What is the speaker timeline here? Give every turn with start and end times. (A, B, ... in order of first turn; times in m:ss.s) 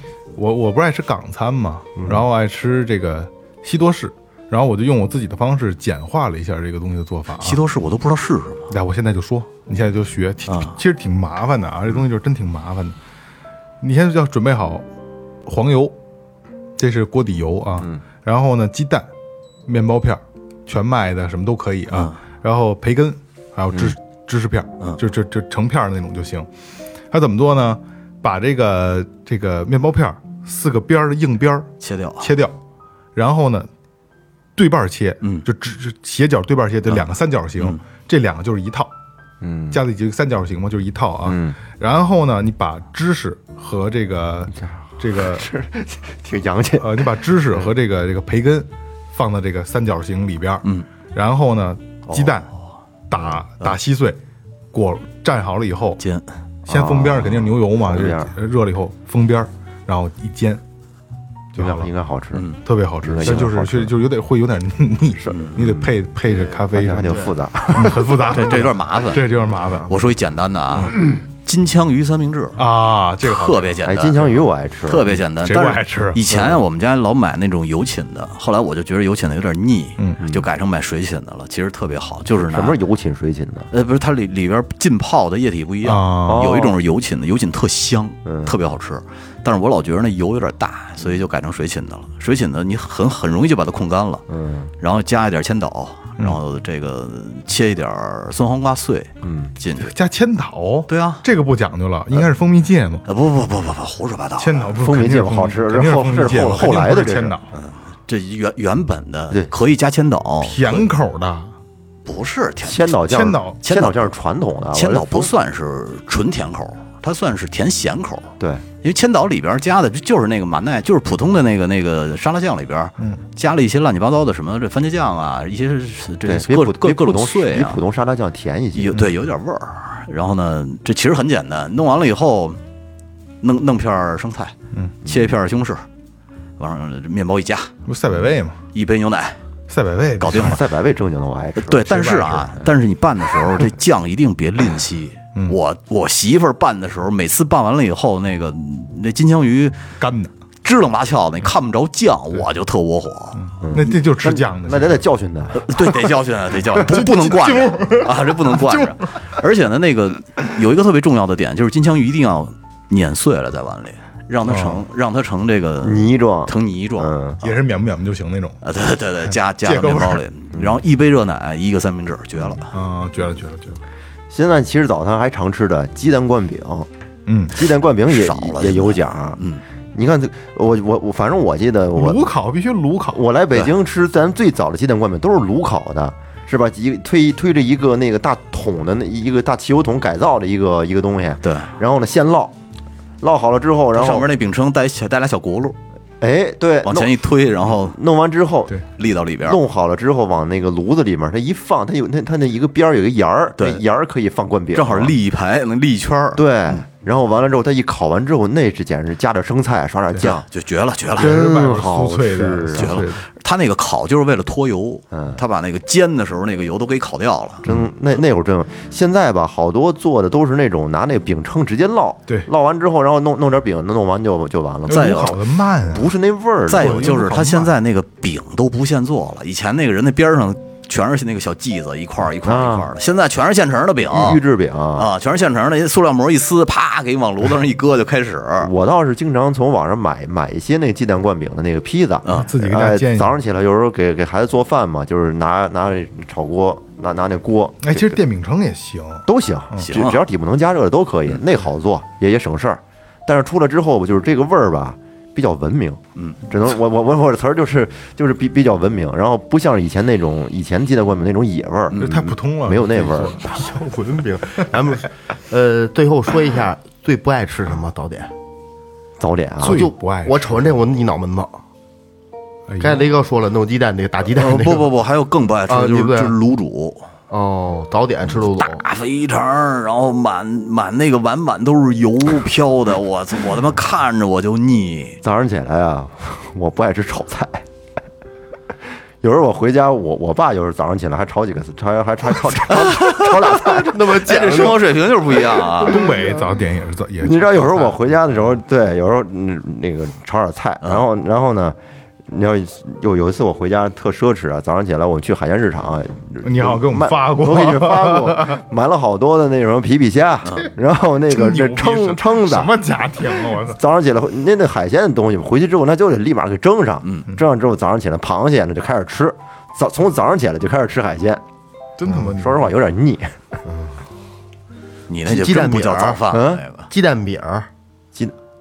0:00.4-0:07.6 A
0:07.4-0:08.7 B
0:08.7-0:13.0 A
0:10.5-0:10.8 B
0:13.8-0:14.8 A
0:15.5-0:16.0 A
0:16.8-0:19.1 A
0:19.7-0:26.5 A
0:21.9-0:22.2 B
0:27.1-0:31.7 A
0:31.8-0:32.3 B
0:32.2-0:32.6 A
0:33.2-0:33.7 A
0:34.6-0:38.9 A
0:39.4-0:39.8 C
0:39.7-0:45.5 A
0:41.2-0:41.6 C
0:45.2-0:47.1 C
0:46.8-0:52.5 A
0:52.1-0:52.6 B
0:53.1-0:54.2 A
0:54.7-0:56.0 A
0:56.0-0:56.3 B
0:56.7-1:00.6 A
0:56.7-0:58.3 C
1:01.5-1:01.9 A
1:01.6-1:02.5 C
1:02.6-1:10.1 A
1:03.0-1:03.9 C
1:05.3-1:05.9 B
1:06.7-1:08.1 C
1:07.1-1:07.3 D
1:08.3-1:09.2 B
1:09.9-1:12.6 B
1:12.6-1:13.8 A
1:13.2-1:22.8 B
1:13.8-1:15.2 C
1:15.4-1:16.2 A
1:16.3-1:16.6 C
1:20.2-1:20.5 C
1:22.4-1:23.7 C
1:23.7-1:34.2 B
1:25.8-1:26.5 A
1:26.3-1:26.7 C
1:28.2-1:28.6 C
1:34.3-1:34.7 C
1:34.8-1:39.9 B
1:39.2-1:39.5 C
1:39.8-1:43.0 A
1:40.9-1:41.2 B
1:43.1-1:44.7 B
1:44.4-1:47.5 A
1:44.8-1:47.4 C
1:47.6-1:50.9 B
1:50.4-1:51.5 A
1:52.1-1:53.0 B
1:52.6-1:55.3 C
1:53.1-1:53.6 A
1:53.6-1:54.0 B
1:54.7-2:07.8 B
1:58.4-1:58.6 C
2:06.3-2:09.0 C
2:08.7-2:12.6 B
2:13.4-2:15.8 B
2:16.6-2:17.7 B
2:17.8-2:18.6 A
2:18.7-2:19.4 B
2:19.7-2:20.6 A
2:20.2-2:20.6 B
2:20.3-2:22.0 C
2:21.7-2:29.8 B
2:21.9-2:22.5 A
2:30.0-2:30.3 A
2:30.6-2:33.4 B
2:33.4-2:35.0 A
2:33.6-2:35.7 C
2:35.6-2:47.2 B
2:36.7-2:39.0 A
2:44.5-2:44.8 A
2:45.8-2:47.4 C
2:47.4-2:48.6 A
2:48.6-2:52.7 B
2:49.3-2:50.2 A
2:52.7-2:53.8 A
2:54.3-2:56.9 C
2:57.3-2:57.6 A
2:57.5-2:59.4 C
2:58.1-2:59.6 B
2:59.9-3:02.3 C
3:02.0-3:03.2 A
3:03.1-3:12.5 C
3:11.4-3:11.7 B
3:13.2-3:14.3 C
3:13.9-3:15.8 B
3:16.2-3:17.2 C
3:16.8-3:18.0 B
3:17.7-3:18.8 C
3:19.0-3:19.6 B
3:19.4-3:25.2 C
3:23.6-3:23.8 B
3:24.7-3:26.8 B
3:26.4-3:30.4 C
3:30.2-3:31.3 B
3:31.2-3:33.0 C
3:31.2-3:33.2 A
3:32.8-3:37.7 B
3:35.1-3:35.4 C
3:37.6-3:45.3 C
3:44.9-3:46.1 A
3:44.9-3:45.4 B
3:45.9-3:47.1 C
3:46.7-3:54.4 B
3:46.7-3:47.7 A
3:52.4-3:52.9 C
3:54.1-3:55.1 C
3:55.0-3:58.7 B
3:58.6-4:08.2 C
4:02.3-4:03.4 A
4:07.8-4:10.0 A
4:09.3-4:23.5 C
4:09.8-4:10.2 B
4:21.9-4:22.2 B
4:22.0-4:23.9 A
4:23.5-4:28.3 D
4:29.2-4:29.9 C
4:29.6-4:30.7 A
4:29.6-4:31.6 D
4:32.7-4:33.1 A
4:32.8-4:34.9 D
4:34.3-4:37.1 B
4:35.7-4:36.4 D
4:37.3-4:38.8 D
4:38.4-4:45.2 B
4:45.2-4:47.7 C
4:49.2-4:54.2 C
4:52.7-4:56.1 B
4:53.8-4:55.0 D
4:55.5-4:56.5 D
4:55.8-4:58.0 A
4:57.2-5:21.4 C
5:06.4-5:08.6 A
5:11.3-5:13.8 A
5:22.0-5:22.7 A
5:22.1-5:23.6 C
5:25.1-5:26.9 B
5:25.3-5:26.2 D
5:26.3-5:26.6 C
5:26.9-5:27.7 D